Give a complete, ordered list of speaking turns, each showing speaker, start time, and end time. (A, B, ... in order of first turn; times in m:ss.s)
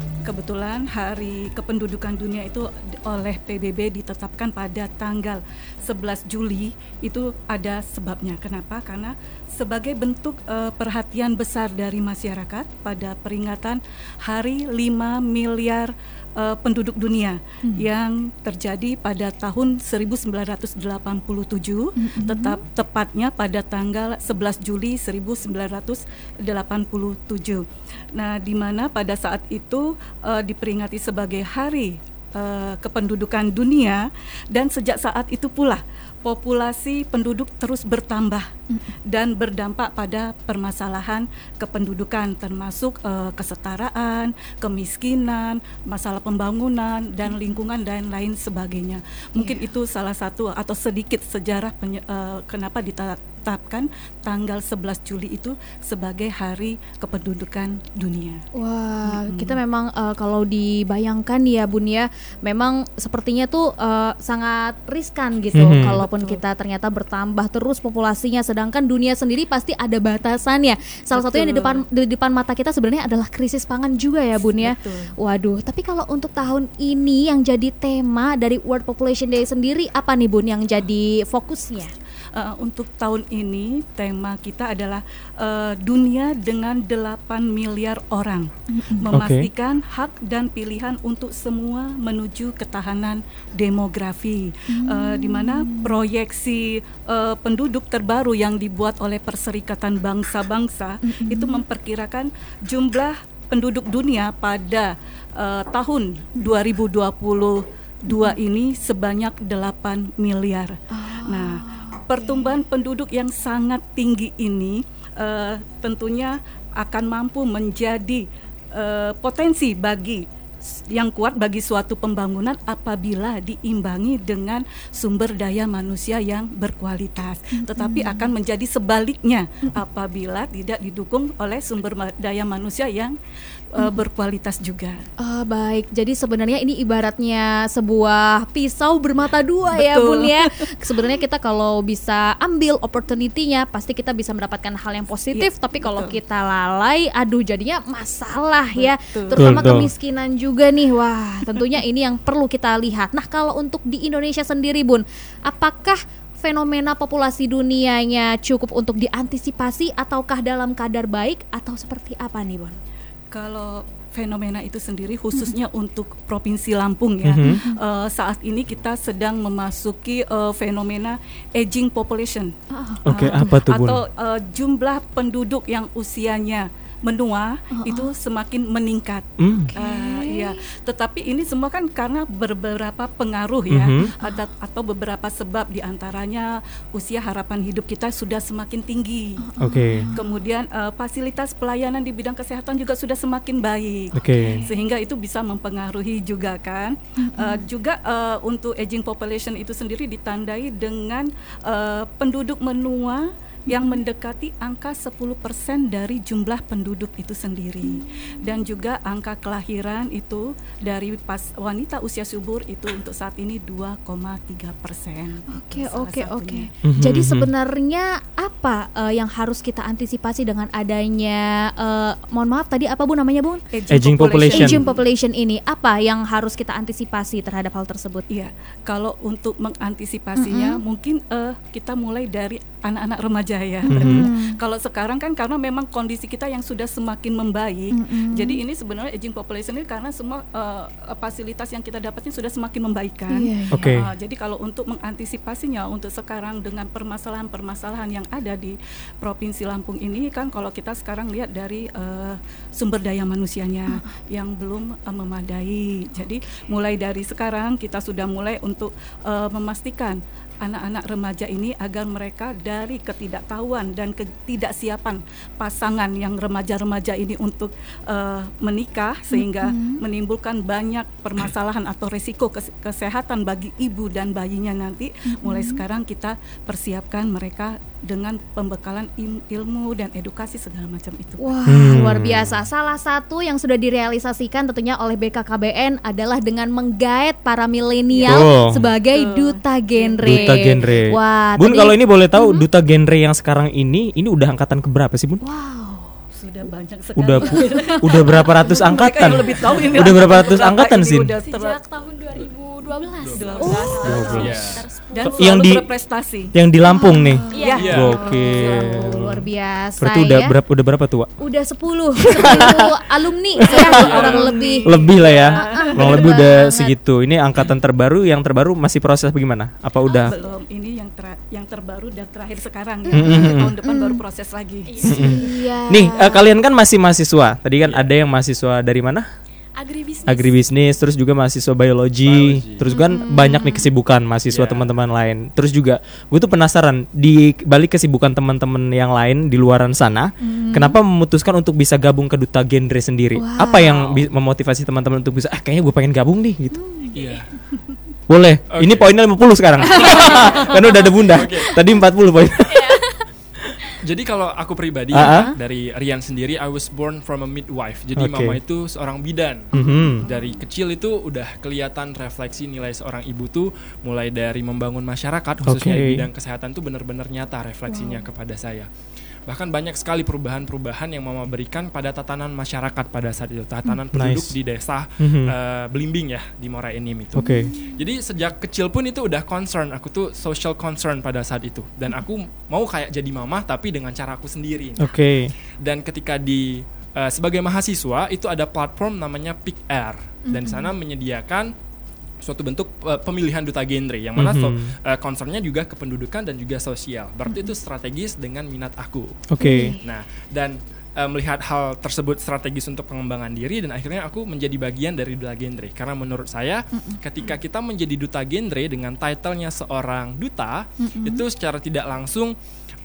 0:00.2-0:27.6 A
0:22.0-0:22.6 B
0:28.1-0:38.5 A
0:39.1-0:58.4 A
0:47.3-0:47.6 B
0:58.5-1:21.9 B
0:59.0-0:59.6 A
1:05.5-1:06.0 C
1:05.9-1:06.4 A
1:11.1-1:11.8 A
1:14.6-1:15.1 A
1:22.3-2:13.1 A
1:28.7-1:29.1 B
1:29.1-1:29.5 C
1:34.7-1:36.0 B
1:41.0-1:41.6 B
1:48.1-1:48.4 B
1:50.9-1:52.6 B
2:07.5-2:08.3 B
2:13.7-2:15.0 A
2:15.2-2:42.8 B
2:19.7-2:20.6 A
2:25.3-2:26.2 A
2:28.7-2:29.8 A
2:29.4-2:29.9 C
2:43.3-2:52.5 A
2:47.2-2:47.6 C
2:47.4-2:47.8 B
2:52.7-2:53.6 B
2:53.0-2:54.0 C
2:53.1-3:09.3 A
2:57.7-2:58.1 B
2:59.4-2:59.7 C
2:59.5-3:00.5 B
3:03.7-3:04.0 C
3:09.4-3:10.4 B
3:09.6-3:10.1 C
3:10.1-3:36.7 A
3:14.2-3:14.6 C
3:14.3-3:14.7 B
3:17.2-3:17.6 B
3:23.7-3:24.0 B
3:27.9-3:28.4 B
3:35.5-3:43.6 B
3:36.8-3:37.5 C
3:43.7-3:45.0 A
3:43.9-3:44.8 C
3:44.5-3:48.2 B
3:48.3-4:41.5 A
3:50.4-3:50.8 B
3:53.8-3:54.5 B
3:53.9-3:54.3 C
3:57.9-3:58.6 B
4:03.3-4:04.0 B
4:03.7-4:04.0 C
4:29.3-4:30.0 B
4:35.3-4:35.8 B
4:41.4-4:52.6 B
4:41.7-4:42.6 C
4:48.1-4:48.5 A
4:48.2-4:48.9 C
4:49.1-4:50.6 A
4:50.2-4:55.4 C
4:55.4-4:56.1 B
4:56.3-5:01.8 A
4:57.2-5:01.3 C
4:57.4-4:59.4 B
5:01.4-5:05.6 D
5:03.2-5:03.6 E
5:03.3-5:04.6 A
5:03.6-5:04.5 B
5:04.1-5:04.4 C
5:04.3-5:04.8 E
5:05.1-5:06.5 A
5:05.3-5:05.8 C
5:06.5-5:09.4 C
5:06.8-5:10.6 B
5:07.5-5:08.3 D
5:07.6-5:08.7 A
5:07.8-5:08.2 E
5:10.0-5:11.3 C
5:11.4-5:16.9 B
5:12.3-5:12.8 C
5:13.6-5:14.0 C
5:13.6-5:16.3 A
5:13.9-5:14.5 E
5:14.8-5:20.3 C
5:20.1-5:20.6 D
5:20.3-5:25.3 A
5:23.1-5:24.2 B
5:23.1-5:23.7 C
5:24.8-5:25.4 D
5:25.0-5:29.2 C
5:25.1-5:26.5 B
5:27.8-5:28.1 E
5:29.8-5:30.5 D
5:30.3-5:46.8 C
5:32.2-5:32.8 E
5:32.9-5:33.9 B
5:34.5-5:35.0 E
5:40.4-5:41.0 B
5:43.4-5:44.2 B
5:46.7-5:47.2 B
5:47.1-5:47.5 E
5:48.3-5:53.0 C
5:48.7-5:49.1 E
5:49.8-5:50.7 E
5:49.8-5:51.9 B
5:51.3-5:51.7 E
5:52.7-5:53.0 D
5:54.0-5:59.7 E
5:55.1-5:55.5 C
5:55.2-5:55.5 B
5:58.2-5:58.6 C
5:59.7-6:00.2 C
6:00.2-6:00.6 A
6:00.2-6:08.9 E
6:05.6-6:06.3 C
6:07.9-6:08.2 B
6:09.5-6:25.1 E
6:14.1-6:14.5 C
6:15.2-6:15.5 C
6:17.4-6:17.7 C
6:17.4-6:18.0 B
6:25.0-6:25.5 C
6:25.8-6:31.7 E
6:30.5-6:30.9 B
6:32.4-6:39.4 E
6:34.4-6:34.9 C
6:39.5-6:39.9 C
6:39.6-6:40.0 B
6:40.0-6:52.5 E
6:51.0-6:51.4 B